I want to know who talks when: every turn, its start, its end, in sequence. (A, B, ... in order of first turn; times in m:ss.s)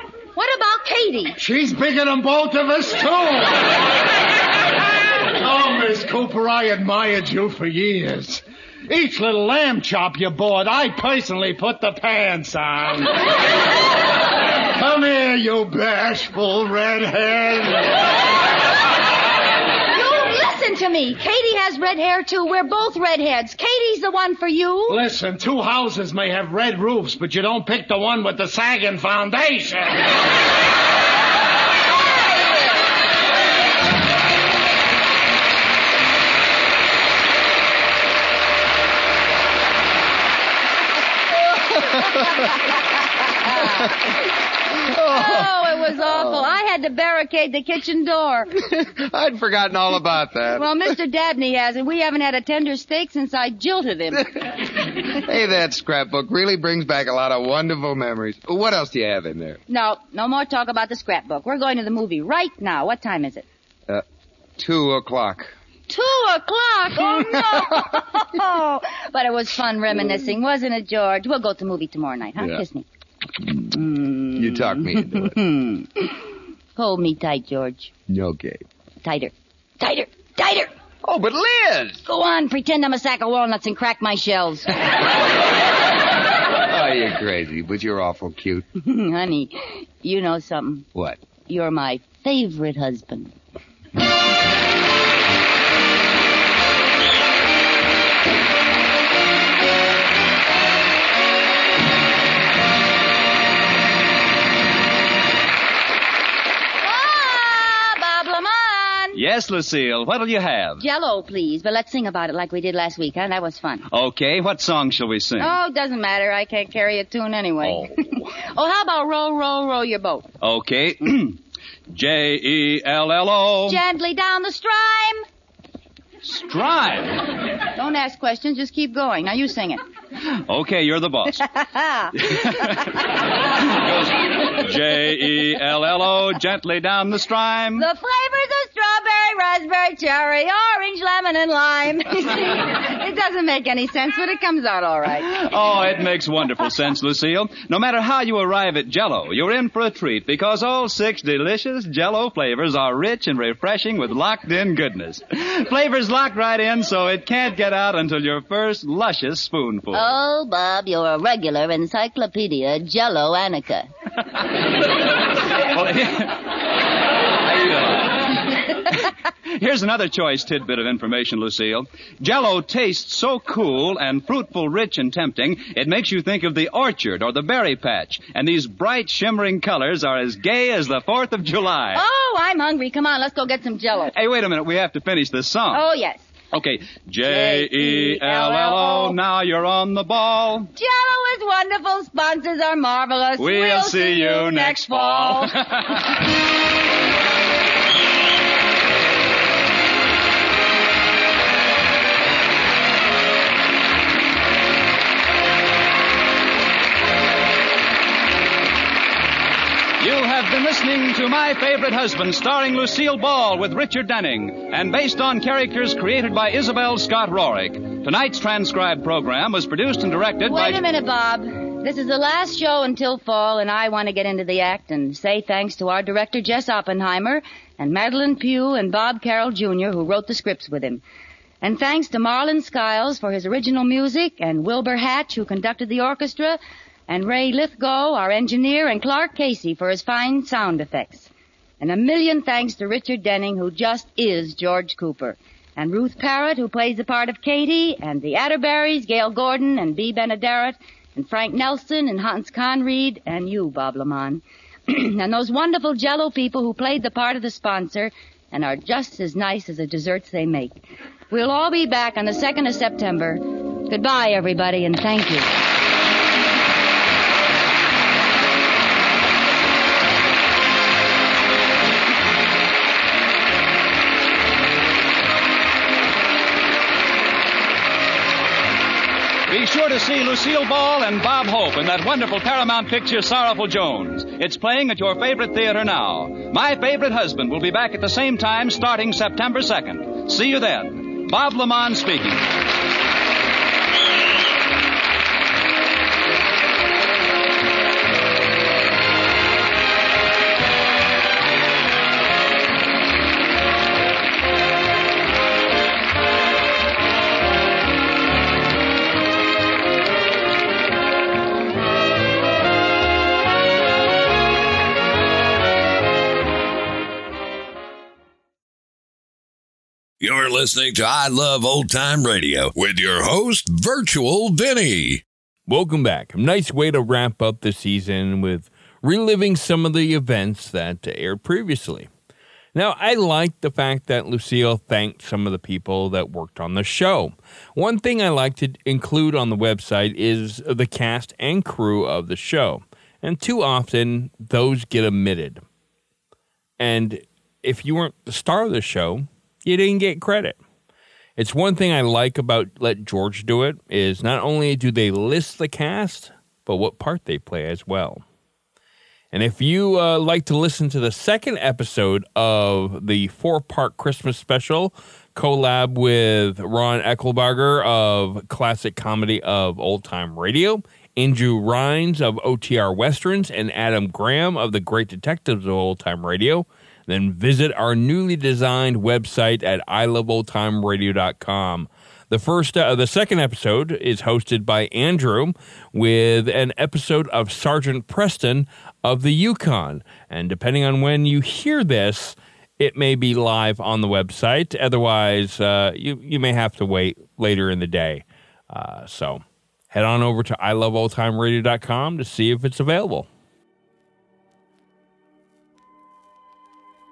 0:00.4-0:01.4 A
0:01.4-0:03.7 B
0:05.4-0:13.2 B
0:14.7-0:18.0 B
0:19.9-0:25.0 A
0:24.9-0:30.0 B
0:43.4-0:44.0 A
0:45.0-0:48.5 A
0:45.0-0:45.5 C
0:48.7-0:50.6 C
0:50.5-0:54.4 A
0:55.1-0:59.6 C
0:59.7-1:03.4 A
1:04.6-1:05.6 C
1:05.9-1:12.8 A
1:07.1-1:07.8 C
1:12.4-1:12.6 C
1:13.7-1:17.9 A
1:14.3-1:15.4 C
1:18.1-1:18.6 C
1:19.0-1:20.7 A
1:21.0-1:22.0 C
1:22.0-1:24.8 A
1:26.7-1:28.6 C
1:28.8-1:30.9 A
1:30.9-1:31.2 C
1:31.4-1:33.3 A
1:46.8-1:49.2 A
1:49.1-1:50.8 D
1:50.8-1:53.8 A
1:53.9-1:55.5 D
1:55.4-2:00.3 A
1:57.6-1:57.9 D
2:00.4-2:01.4 D
2:01.9-2:03.8 D
2:03.7-2:05.2 A
2:06.2-2:07.2 D
2:07.8-2:09.8 A
2:10.2-2:11.5 D
2:11.5-2:12.6 A
2:12.2-2:17.8 D
2:17.8-2:25.4 A
2:25.3-2:40.1 D
2:39.9-2:43.9 A
2:45.5-2:46.5 D
2:47.4-3:02.0 D
3:01.9-3:04.1 A
3:04.1-3:05.8 D
3:05.7-3:06.3 A
3:06.5-3:10.7 D
3:07.2-3:09.2 A
3:10.8-3:15.6 A
3:13.4-3:16.0 D
3:30.0-3:40.8 D
3:40.4-3:51.0 A
3:51.6-4:01.3 A
4:01.8-4:20.8 A
4:21.3-4:25.5 A
4:39.5-4:52.5 D
5:20.2-5:25.2 E
5:25.7-5:32.1 F
5:32.7-5:45.6 F
5:46.8-5:50.6 F
5:51.4-5:58.2 F
5:59.3-6:43.3 F